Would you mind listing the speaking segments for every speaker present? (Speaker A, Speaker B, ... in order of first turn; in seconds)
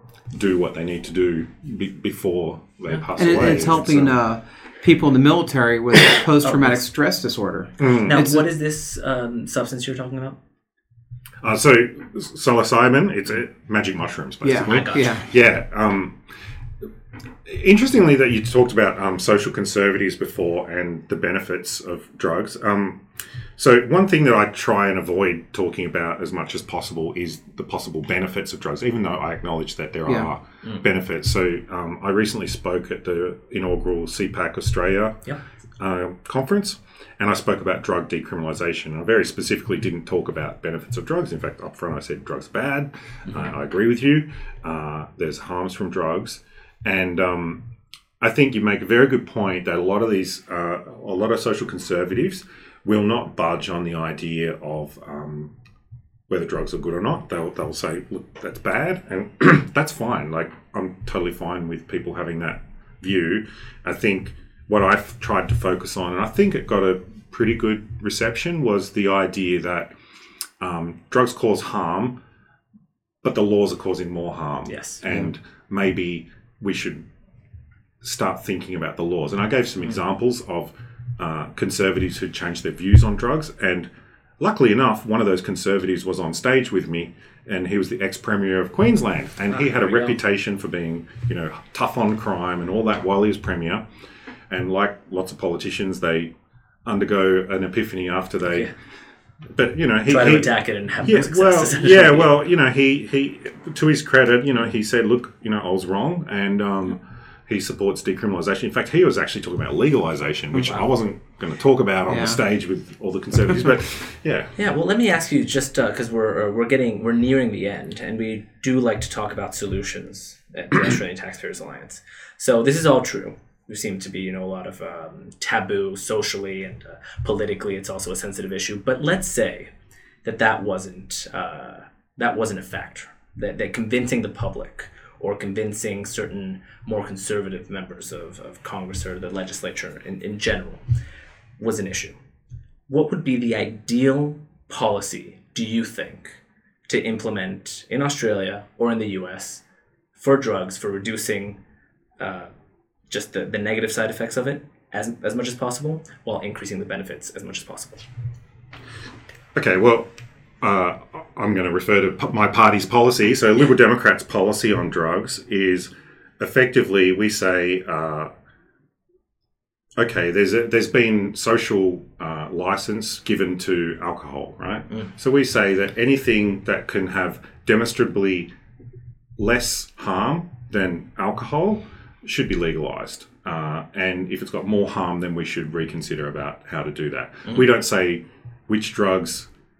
Speaker A: 0.3-4.1, 7.8-8.2, 11.4-16.2, 17.4-23.0, 23.6-47.6, 48.2-55.5, 56.3-69.9, 70.6-72.2, 73.2-77.1, 78.0-83.9, 84.4-93.8, 94.5-96.3, 96.8-98.7, 99.5-114.5, 159.5-160.1, 160.6-168.3, 170.0-178.5, 179.4-189.5
Speaker B: 3.2-8.4, 14.4-15.2, 112.1-112.4
Speaker C: 6.4-6.8, 8.0-10.4, 14.6-15.2, 74.7-75.0, 89.5-90.2, 100.1-102.3, 114.6-129.7, 130.2-140.8, 141.6-142.2, 142.9-149.6, 150.2-151.6, 152.2-152.5, 153.1-158.0